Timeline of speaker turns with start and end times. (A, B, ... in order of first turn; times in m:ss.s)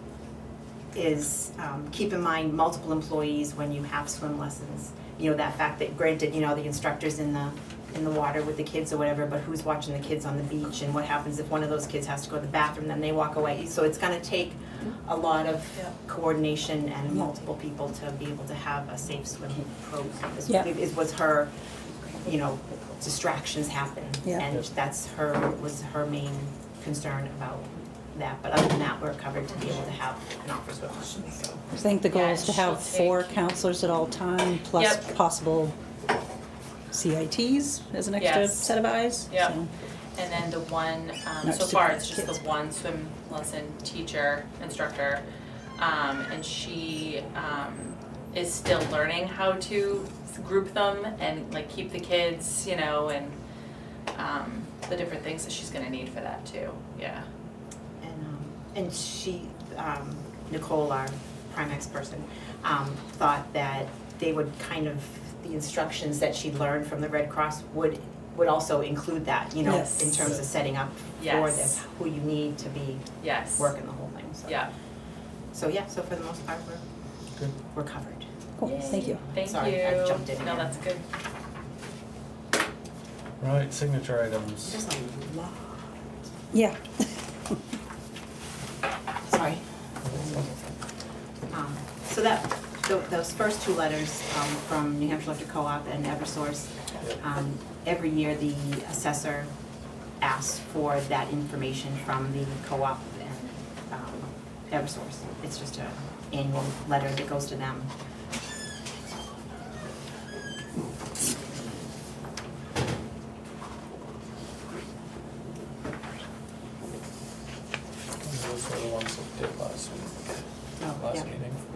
0:00.9-0:21.5 A
0:22.2-0:31.6 A
0:31.7-0:35.8 B
0:32.1-0:33.3 C
0:34.8-0:35.0 C
0:36.9-0:39.7 B
0:38.2-0:39.6 C
0:40.1-0:45.2 C
0:41.4-0:42.3 B
0:45.8-0:53.4 C
0:54.1-0:57.2 C
0:58.0-1:14.6 A
1:09.6-1:09.9 B
1:09.7-1:10.0 C
1:11.2-1:11.8 C
1:13.2-1:13.8 C
1:15.5-1:16.8 A
1:17.7-1:20.8 A
1:18.6-1:19.2 B
1:18.6-1:21.0 C
1:23.4-1:24.8 D
1:24.7-1:25.9 A
1:26.5-1:27.4 B
1:29.2-1:30.7 A
1:30.1-1:30.4 D
1:31.5-1:39.5 A
1:40.2-1:47.9 A
1:58.2-2:00.2 D
2:00.8-2:01.3 A
2:00.9-2:01.6 D